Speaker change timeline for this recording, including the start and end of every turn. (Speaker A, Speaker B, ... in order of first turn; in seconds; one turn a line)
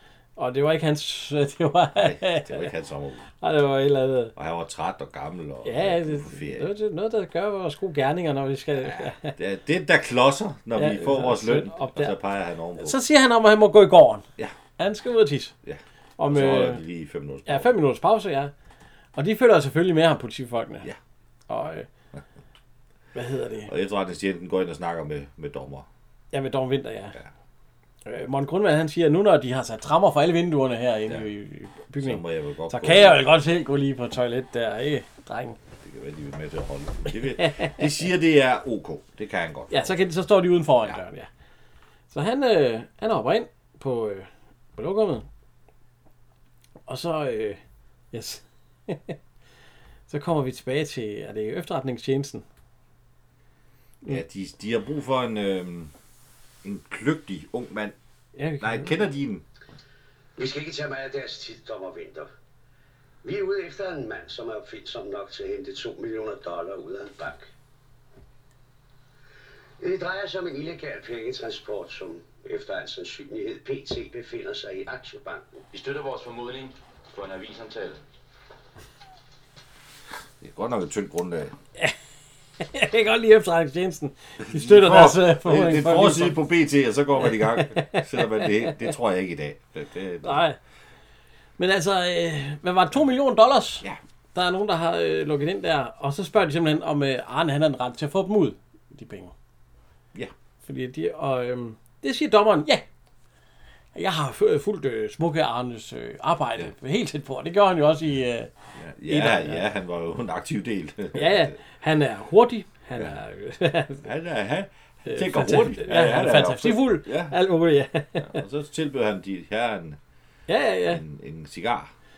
Speaker A: 0.4-2.7
Speaker B: 1.9-3.3
Speaker A: 3.4-4.3
Speaker B: 4.3-6.7
Speaker A: 5.6-9.3
Speaker B: 8.8-13.0
Speaker A: 10.8-12.2
Speaker A: 12.8-14.2
Speaker A: 14.8-15.5
Speaker B: 15.6-17.7
Speaker A: 16.2-16.8
Speaker A: 17.4-18.5
Speaker A: 19.2-20.9
Speaker A: 21.5-21.9
Speaker A: 23.1-23.7
Speaker B: 23.7-25.9
Speaker A: 26.3-27.2
Speaker A: 28.1-35.6
Speaker B: 32.0-33.2
Speaker B: 35.8-40.1
Speaker A: 37.4-37.8
Speaker A: 39.7-41.3
Speaker A: 42.1-45.2
Speaker A: 46.9-47.6
Speaker A: 48.1-49.2
Speaker A: 50.1-52.4
Speaker B: 54.0-55.9
Speaker B: 56.6-57.9
Speaker A: 58.4-58.9
Speaker B: 58.6-59.4
Speaker C: 60.4-62.3
Speaker C: 63.2-67.5
Speaker C: 69.8-75.6
Speaker D: 75.7-78.0
Speaker B: 80.4-81.5
Speaker A: 82.6-86.4
Speaker B: 84.4-90.4
Speaker A: 87.4-88.7
Speaker A: 90.2-90.6
Speaker A: 91.6-99.3
Speaker A: 100.6-102.8
Speaker A: 103.9-108.5
Speaker B: 108.7-111.6
Speaker A: 109.1-109.6
Speaker A: 111.1-114.1
Speaker B: 114.0-117.4
Speaker A: 115.1-118.3
Speaker B: 118.2-120.0
Speaker A: 120.5-121.0
Speaker B: 120.9-121.9